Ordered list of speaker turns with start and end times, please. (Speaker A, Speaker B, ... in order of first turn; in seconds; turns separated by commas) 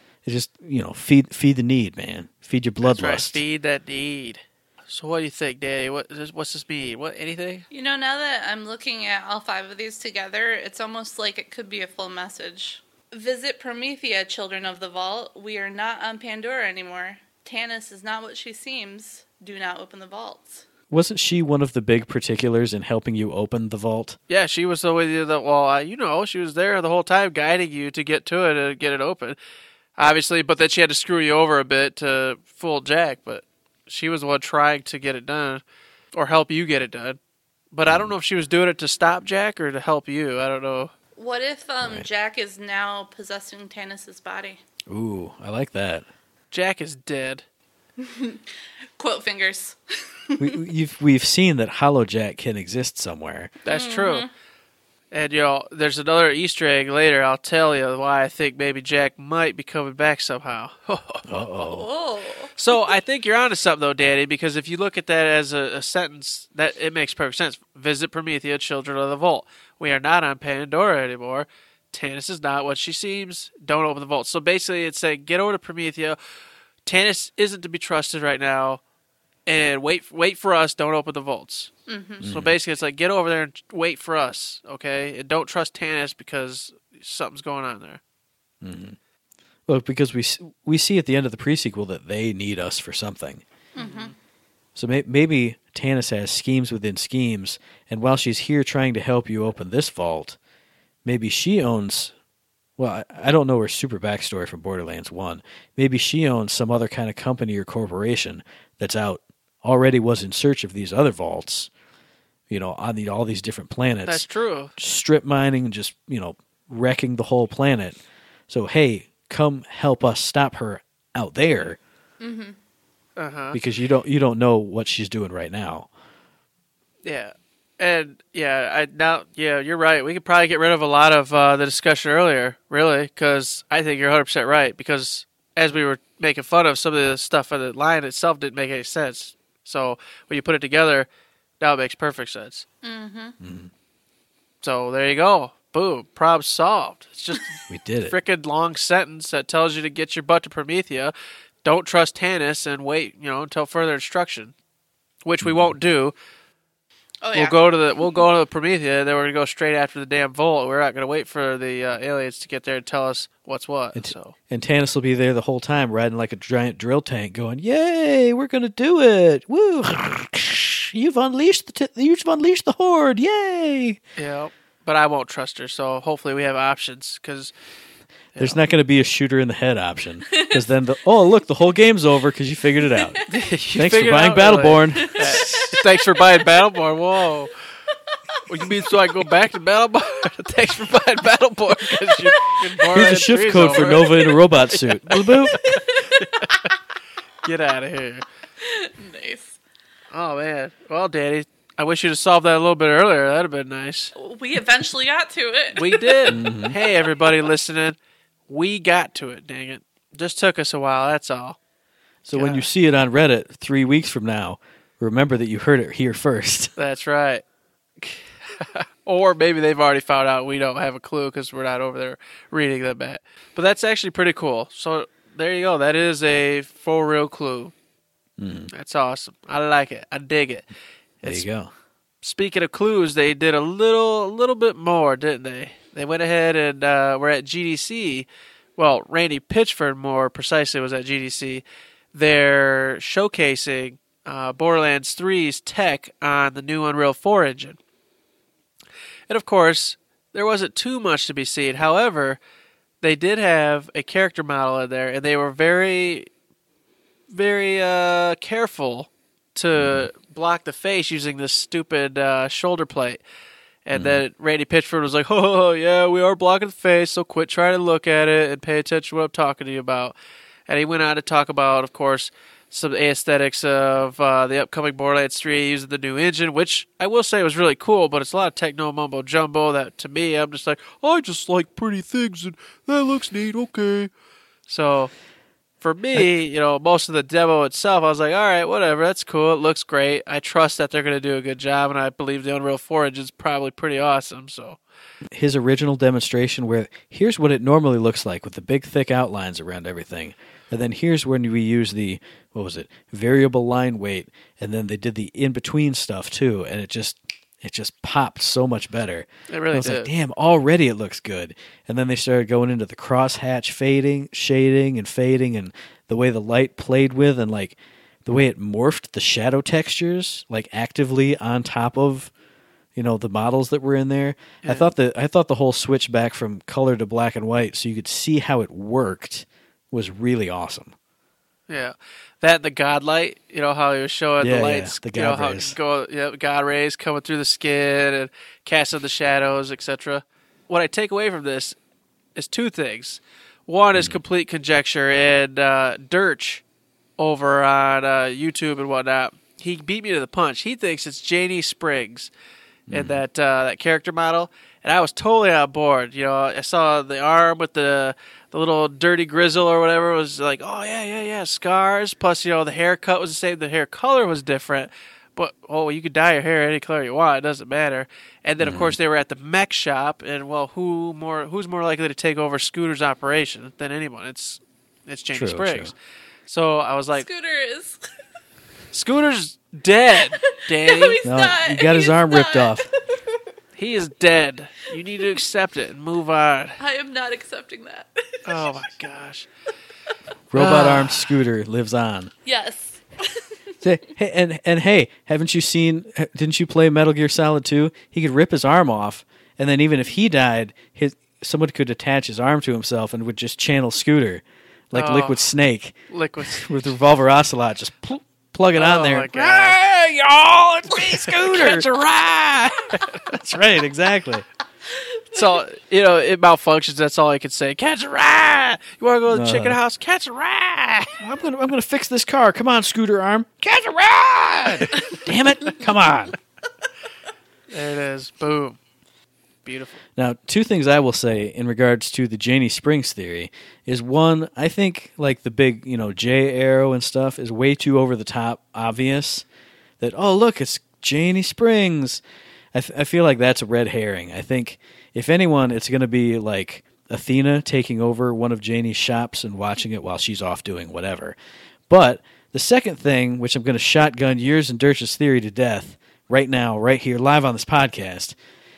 Speaker A: 0.2-3.4, Speaker B: 2.8-7.7, Speaker C: 7.7-20.6, Speaker A: 20.9-24.2, Speaker B: 24.3-29.4, Speaker B: 30.0-35.6, Speaker B: 36.1-37.2, Speaker B: 37.7-40.9, Speaker A: 37.9-38.1, Speaker C: 41.1-44.6, Speaker A: 44.9-46.0, Speaker B: 46.5-47.4, Speaker C: 48.0-50.6, Speaker A: 50.4-53.5, Speaker B: 53.6-54.3, Speaker C: 53.7-54.3, Speaker B: 55.1-61.2, Speaker A: 61.3-61.9, Speaker C: 61.6-62.5, Speaker B: 62.5-76.2, Speaker B: 76.8-78.8, Speaker B: 79.5-81.7, Speaker C: 81.9-82.3, Speaker A: 82.2-82.5, Speaker B: 82.2-88.0, Speaker A: 88.6-89.0, Speaker A: 89.7-93.4, Speaker C: 93.7-94.1, Speaker B: 93.8-94.1, Speaker A: 94.8-100.4, Speaker A: 101.0-102.1, Speaker A: 102.8-111.7, Speaker A: 112.5-121.8, Speaker B: 114.0-114.7, Speaker C: 122.2-122.5, Speaker B: 123.2-123.6, Speaker A: 123.5-125.9, Speaker B: 127.0-141.1, Speaker B: 141.6-142.6, Speaker C: 142.8-143.3, Speaker A: 143.4-143.7, Speaker B: 144.6-154.5, Speaker A: 147.7-148.2, Speaker B: 155.2-156.1, Speaker A: 155.4-155.7, Speaker C: 157.2-158.2, Speaker B: 157.3-164.3, Speaker A: 163.9-174.0, Speaker B: 174.2-177.5, Speaker A: 178.4-183.2, Speaker C: 180.3-180.6, Speaker C: 182.9-183.3, Speaker B: 183.3-187.5, Speaker A: 183.7-185.6, Speaker C: 185.1-185.8, Speaker B: 188.5-194.3, Speaker C: 192.3-192.6, Speaker A: 192.9-195.8, Speaker C: 193.7-194.4, Speaker C: 195.5-196.7, Speaker B: 196.2-196.7, Speaker B: 197.4-198.2, Speaker C: 198.6-199.6, Speaker B: 200.1-204.1, Speaker C: 204.1-206.4, Speaker B: 205.7-208.0, Speaker A: 206.3-206.7, Speaker B: 208.5-211.6, Speaker A: 212.2-216.7, Speaker B: 212.3-212.6, Speaker B: 216.8-217.4, Speaker B: 218.0-227.7, Speaker A: 228.4-228.7, Speaker B: 228.7-230.6, Speaker A: 231.2-231.7, Speaker B: 232.2-247.8, Speaker B: 249.3-252.4, Speaker B: 253.0-256.3, Speaker B: 257.3-263.2, Speaker A: 259.7-260.1, Speaker B: 263.9-270.1, Speaker A: 263.9-264.2, Speaker B: 270.7-284.1, Speaker B: 284.7-285.1, Speaker B: 285.8-294.8, Speaker A: 295.3-322.3, Speaker B: 309.5-310.1, Speaker A: 322.9-330.9, Speaker B: 324.6-324.9, Speaker B: 331.7-341.8, Speaker A: 334.4-335.8, Speaker B: 342.3-346.6, Speaker B: 347.2-352.3, Speaker A: 352.9-353.2, Speaker B: 352.9-375.9, Speaker A: 368.6-369.0, Speaker A: 375.3-375.9, Speaker B: 376.5-377.3, Speaker C: 377.1-378.1, Speaker B: 378.9-381.2, Speaker C: 380.8-383.4, Speaker A: 381.2-382.9, Speaker B: 383.8-386.8, Speaker C: 386.8-388.8, Speaker B: 388.4-389.5, Speaker A: 390.5-392.3, Speaker B: 390.6-391.1, Speaker C: 392.4-393.5, Speaker A: 393.8-411.9, Speaker B: 404.9-405.5, Speaker B: 406.1-406.6, Speaker B: 408.7-409.8, Speaker B: 410.9-413.3, Speaker A: 413.3-414.4, Speaker B: 415.3-421.2, Speaker A: 419.3-419.8, Speaker A: 421.2-426.4, Speaker B: 427.7-428.8, Speaker B: 429.6-430.0, Speaker A: 430.2-439.4, Speaker A: 440.0-442.2, Speaker A: 442.7-451.3, Speaker A: 451.9-458.4